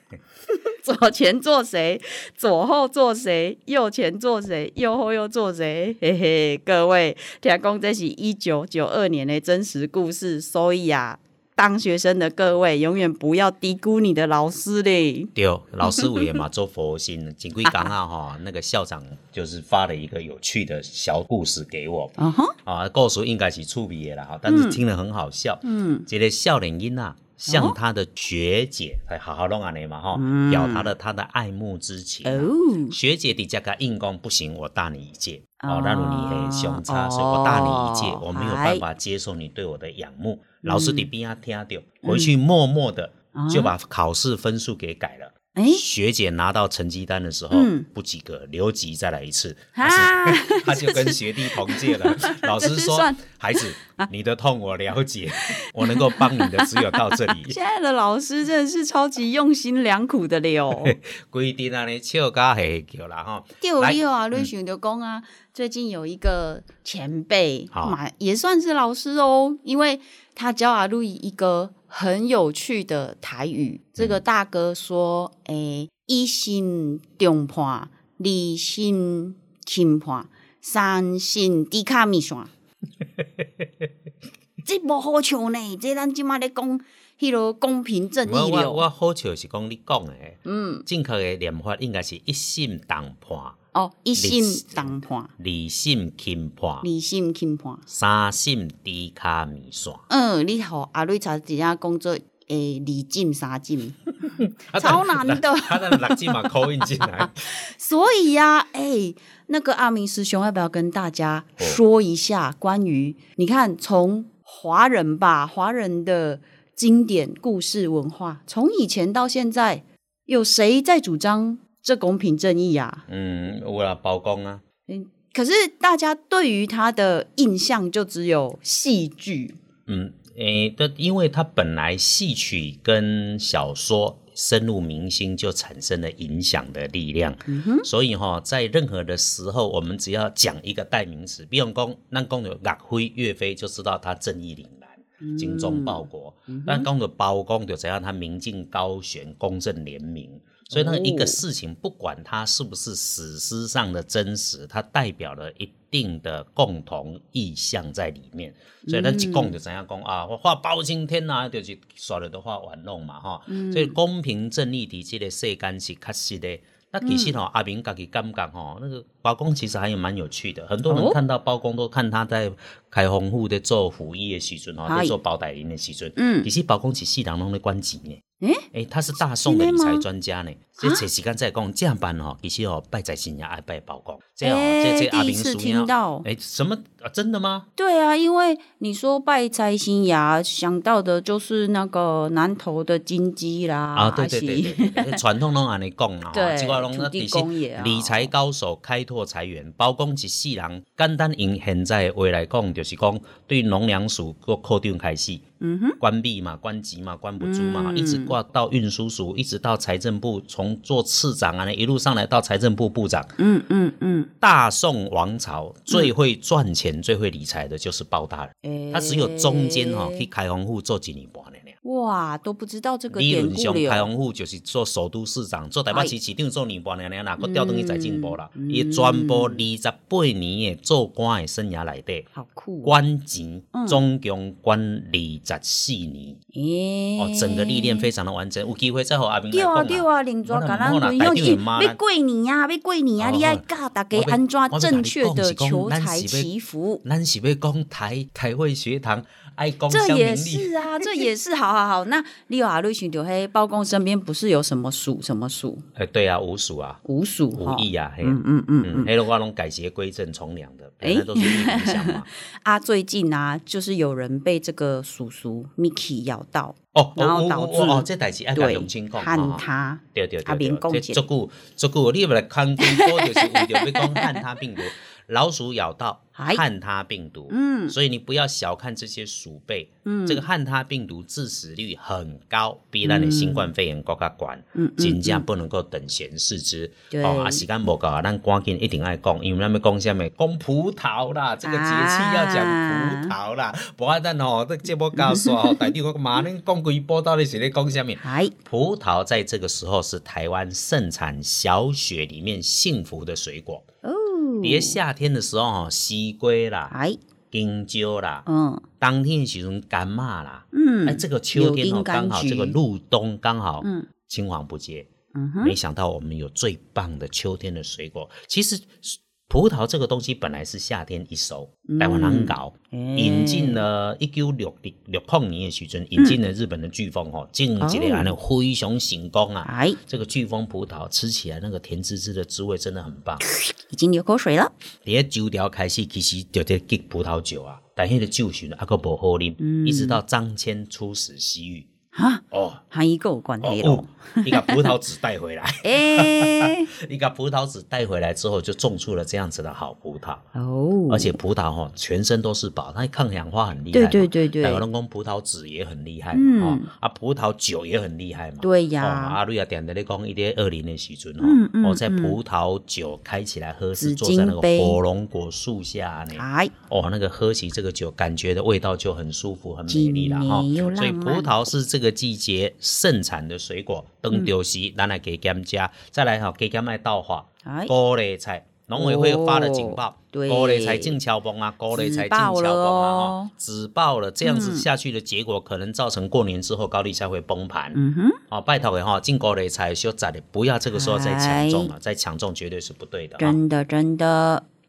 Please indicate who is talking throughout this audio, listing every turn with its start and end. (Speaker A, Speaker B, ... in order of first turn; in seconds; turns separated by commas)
Speaker A: 0.5-15.3, Speaker B: 15.3-57.6, Speaker A: 15.8-16.4, Speaker A: 17.6-17.9, Speaker A: 22.2-22.5, Speaker A: 24.5-24.8, Speaker A: 25.6-26.1, Speaker A: 27.5-27.8, Speaker A: 30.1-30.9, Speaker A: 32.2-33.0, Speaker A: 35.6-38.9, Speaker A: 40.6-41.1, Speaker A: 42.0-42.3, Speaker A: 43.3-43.8, Speaker A: 45.5-45.8, Speaker A: 47.5-47.9, Speaker A: 49.8-54.1, Speaker A: 55.5-61.0, Speaker B: 60.7-64.5, Speaker A: 63.6-82.5, Speaker B: 67.7-68.0, Speaker A: 84.6-88.9, Speaker B: 88.2-93.5, Speaker A: 90.5-90.9, Speaker A: 93.7-95.3, Speaker B: 94.1-96.9, Speaker A: 96.8-97.8, Speaker B: 97.9-100.0, Speaker A: 100.1-104.1, Speaker B: 104.3-107.4, Speaker A: 104.8-123.0, Speaker B: 123.1-124.6, Speaker A: 124.9-129.6, Speaker B: 129.9-178.2, Speaker A: 137.5-137.9, Speaker A: 145.2-146.9, Speaker A: 150.7-151.4, Speaker A: 158.8-159.6, Speaker A: 163.5-164.0, Speaker A: 167.0-167.3, Speaker A: 170.9-171.2, Speaker A: 174.8-175.2, Speaker A: 176.2-176.5, Speaker A: 178.4-178.7, Speaker B: 178.7-187.7, Speaker A: 179.3-180.1, Speaker A: 180.8-181.1, Speaker A: 184.4-186.2, Speaker A: 187.8-195.2, Speaker B: 193.9-205.4, Speaker A: 196.3-198.3, Speaker A: 205.6-206.0, Speaker B: 206.0-213.3, Speaker A: 207.4-208.3, Speaker A: 213.4-214.3, Speaker B: 214.4-221.8, Speaker A: 218.6-220.3, Speaker A: 221.8-224.1, Speaker B: 223.1-232.3, Speaker A: 225.9-226.2, Speaker A: 227.4-229.7, Speaker A: 232.3-233.0, Speaker B: 232.8-236.4, Speaker A: 233.7-234.0, Speaker A: 236.5-238.1, Speaker B: 237.2-242.0, Speaker A: 239.5-247.0, Speaker B: 243.2-246.5, Speaker B: 247.0-251.3, Speaker A: 249.9-255.8, Speaker B: 255.9-257.0, Speaker A: 257.0-259.1, Speaker B: 257.5-262.3, Speaker A: 261.0-271.2, Speaker B: 266.9-303.8, Speaker A: 272.8-274.4, Speaker A: 276.4-276.6, Speaker A: 277.5-278.0, Speaker A: 280.0-280.4, Speaker A: 283.0-283.7, Speaker A: 284.8-285.4, Speaker A: 287.1-287.6, Speaker A: 291.6-293.3, Speaker A: 295.1-295.9, Speaker A: 298.2-298.5, Speaker A: 304.0-305.0, Speaker B: 304.6-306.9, Speaker A: 306.9-307.2, Speaker B: 307.5-308.5, Speaker A: 308.5-308.8, Speaker B: 309.0-315.1, Speaker A: 310.7-312.8, Speaker A: 313.8-314.1, Speaker A: 315.3-315.8, Speaker B: 315.6-333.4, Speaker A: 321.9-323.8, Speaker A: 327.8-328.3, Speaker A: 329.6-330.0, Speaker A: 333.4-334.7, Speaker B: 335.0-341.9, Speaker A: 339.6-340.2, Speaker A: 342.1-345.0, Speaker B: 342.5-342.8, Speaker B: 343.6-350.4, Speaker A: 345.8-346.9, Speaker A: 350.5-351.3, Speaker B: 351.1-393.6, Speaker A: 353.9-354.8, Speaker A: 356.3-356.9, Speaker A: 358.6-359.4, Speaker A: 361.4-362.4, Speaker A: 364.0-365.0, Speaker A: 366.3-366.7, Speaker A: 369.9-371.5, Speaker A: 377.6-377.9, Speaker A: 378.9-381.2, Speaker A: 381.9-383.5, Speaker A: 384.4-384.9, Speaker A: 387.9-388.4, Speaker A: 390.9-391.9, Speaker A: 393.4-394.6